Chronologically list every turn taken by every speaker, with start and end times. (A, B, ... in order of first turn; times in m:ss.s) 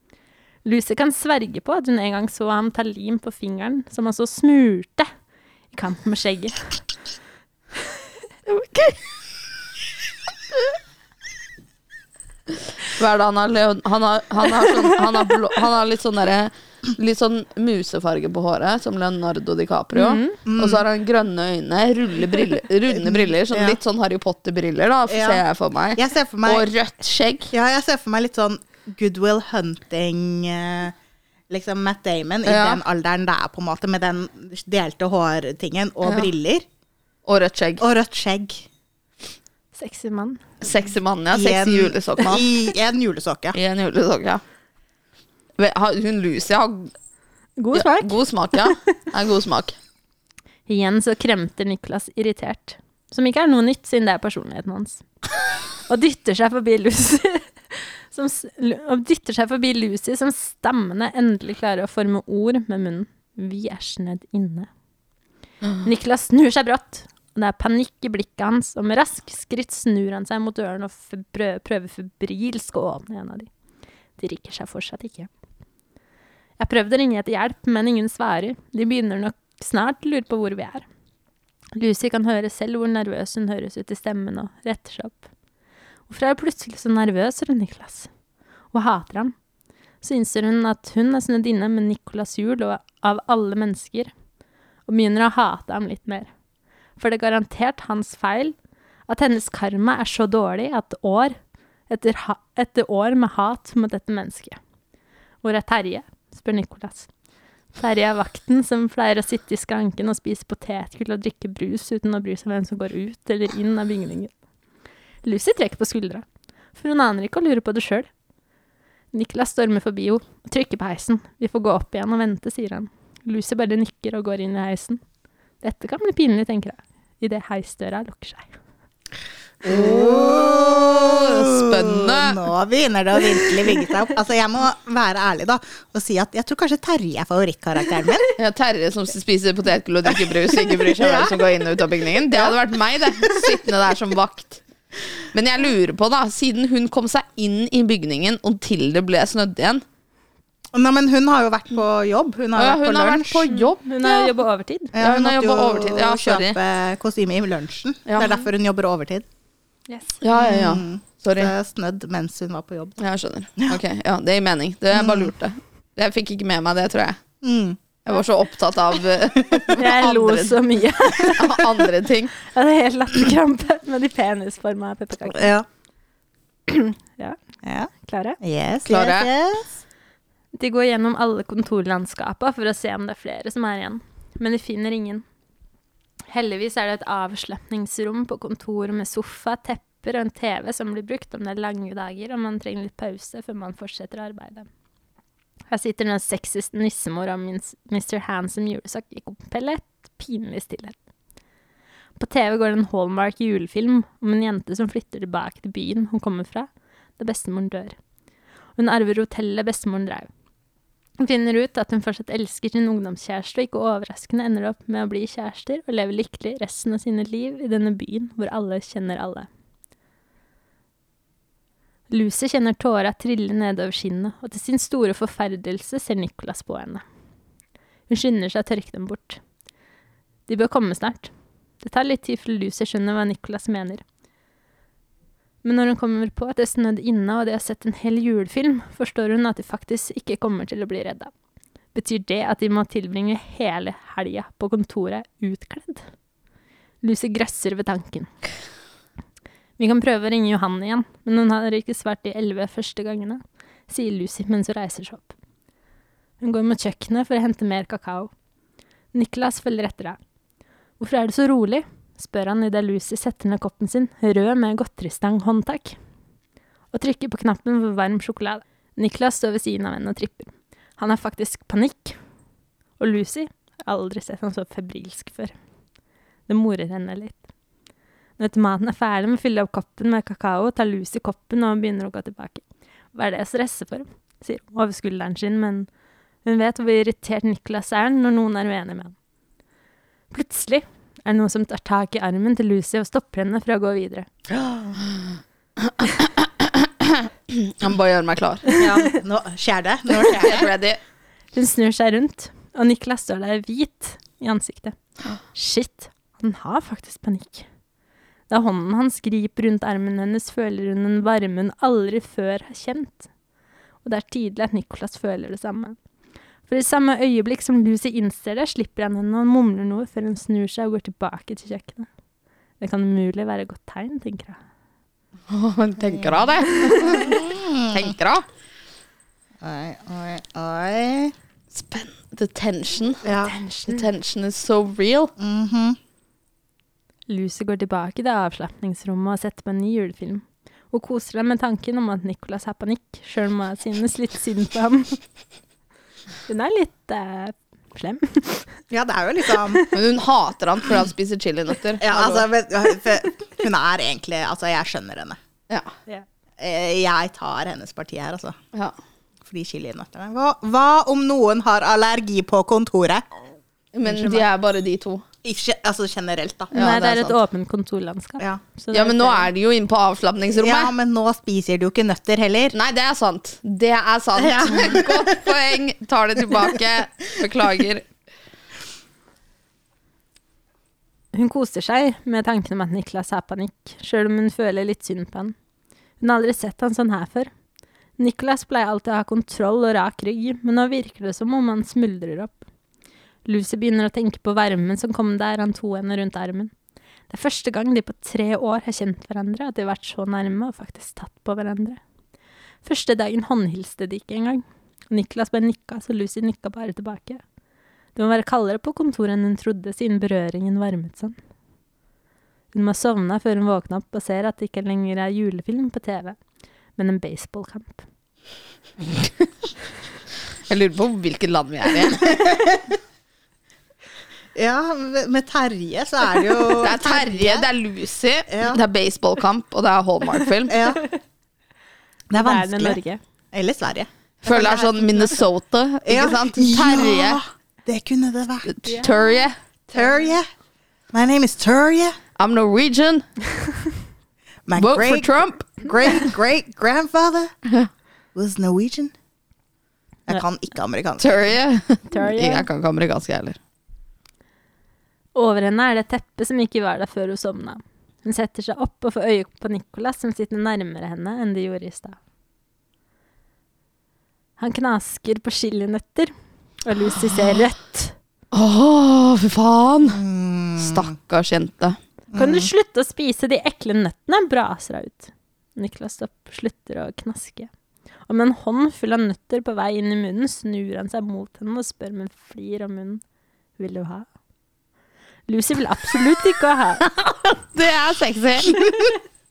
0:00.6-0:05.1 A
0:05.7-0:06.8 A
0:08.5-0:09.0 A
0:12.8-0:27.5 B
0:19.9-0:20.4 A
0:20.5-0:20.8 C
0:22.9-0:23.8 C
0:25.1-0:25.4 C
0:26.0-0:26.7 C
0:27.5-0:31.0 C
0:31.5-0:36.6 C
0:32.5-0:32.8 B
0:36.0-0:36.3 B
0:37.2-0:37.9 B
0:37.8-0:38.7 C
0:39.7-0:40.4 A
0:40.6-0:42.4 B
0:41.3-0:43.6 C
0:43.5-0:44.4 B
0:45.6-0:46.9 B
0:47.6-0:48.7 A
0:47.7-0:49.8 B
0:50.7-0:55.0 A
0:55.9-1:04.7 A
1:05.8-1:13.5 A
1:14.2-1:15.3 A
1:16.6-1:20.9 A
1:21.8-1:25.2 A
1:26.1-1:28.1 A
1:28.7-1:29.4 A
1:30.0-1:34.1 A
1:34.9-1:36.3 A
1:37.0-1:38.6 A
1:39.1-1:41.4 A
1:41.9-1:44.6 A
1:45.4-1:47.1 A
1:47.8-1:54.3 A
1:55.2-1:58.1 A
1:59.1-2:05.0 A
2:05.6-2:08.5 A
2:09.6-2:18.3 C
2:09.7-2:12.4 B
2:18.4-2:24.6 B
2:20.8-2:21.4 C
2:22.3-2:22.6 C
2:25.3-2:29.8 B
2:30.7-2:33.6 C
2:32.6-2:34.4 B
2:33.8-2:34.9 A
2:34.9-2:39.2 C
2:35.0-2:36.6 B
2:38.1-2:38.4 B
2:39.9-2:40.2 A
2:40.2-2:41.5 B
2:40.3-2:43.0 C
2:43.0-2:47.2 B
2:44.9-2:45.3 C
2:47.4-2:47.8 C
2:48.0-2:50.6 B
2:49.7-2:51.7 A
2:51.2-2:52.4 B
2:52.4-2:55.5 A
2:55.3-2:55.7 C
2:56.7-2:57.4 A
2:57.6-2:59.7 C
2:58.0-2:58.4 A
2:58.9-2:59.3 B
3:00.6-3:05.2 A
3:06.3-3:14.7 A
3:15.7-3:21.0 A
3:22.2-3:28.0 A
3:28.8-3:30.3 A
3:31.2-3:39.5 A
3:42.1-3:47.0 A
3:48.1-3:49.4 A
3:50.5-3:51.3 A
3:51.8-3:54.0 A
3:55.6-4:01.3 A
4:02.0-4:06.1 A
4:07.0-4:08.3 A
4:09.8-4:15.3 A
4:16.4-4:18.3 A
4:19.1-4:20.2 A
4:21.0-4:26.0 A
4:26.9-4:32.2 A
4:33.0-4:35.5 A
4:36.5-4:37.4 A
4:38.4-4:45.9 A
4:46.4-4:49.2 A
4:50.3-4:54.3 A
4:54.5-4:55.0 C
4:55.8-4:58.6 B
4:58.7-4:59.0 A
4:58.7-5:00.7 C
5:00.2-5:01.0 B
5:01.5-5:05.0 A
5:05.5-5:07.7 A
5:08.5-5:13.3 A
5:14.0-5:16.0 A
5:16.7-5:22.1 A
5:22.8-5:24.6 A
5:25.5-5:28.4 B
5:26.0-5:28.0 C
5:29.6-5:31.3 C
5:31.7-5:33.2 B
5:33.2-5:33.6 C
5:33.4-5:34.1 A
5:33.9-5:35.3 B
5:35.4-5:36.0 C
5:37.3-5:45.2 A
5:46.5-5:48.8 A
5:48.9-5:49.8 C
5:49.9-5:52.5 B
5:52.0-5:55.4 C
5:56.6-5:58.6 C
5:59.5-6:03.3 C
6:03.9-6:05.2 B
6:04.0-6:04.5 C
6:05.4-6:07.4 C
6:06.7-6:07.2 B
6:06.7-6:09.5 A
6:08.9-6:10.9 B
6:10.5-6:12.8 C
6:12.7-6:18.0 B
6:14.4-6:15.4 C
6:21.3-6:25.6 A
6:26.2-6:27.5 A
6:28.2-6:32.6 A
6:33.5-6:36.7 A
6:37.3-6:42.0 A
6:42.8-6:47.4 A
6:48.2-6:51.4 A
6:52.7-6:56.4 A
6:57.0-6:58.0 A
7:00.7-7:02.7 B
7:02.4-7:02.7 C
7:04.6-7:07.7 C
7:06.8-7:10.9 B
7:08.5-7:08.8 C
7:10.7-7:11.0 C
7:12.3-7:13.0 C
7:12.3-7:13.2 A
7:13.5-7:15.4 C
7:14.4-7:17.4 B
7:16.0-7:18.7 C
7:18.7-7:19.6 B
7:18.8-7:20.3 A
7:19.9-7:20.5 C
7:21.1-7:22.2 C
7:22.4-7:23.3 B
7:24.7-7:27.5 C
7:24.8-7:26.2 B
7:28.4-7:29.1 C
7:30.3-7:31.5 C
7:31.2-7:33.6 B
7:32.1-7:32.7 A
7:35.4-7:42.2 A
7:44.6-7:46.3 A
7:46.8-7:48.2 A
7:48.5-7:50.2 B
7:50.1-7:51.1 C
7:50.8-7:52.0 B
7:52.3-7:52.7 C
7:52.3-7:57.7 A
7:58.3-8:03.2 A
8:03.8-8:04.3 A
8:05.5-8:07.1 A
8:07.7-8:09.0 B
8:08.8-8:09.1 C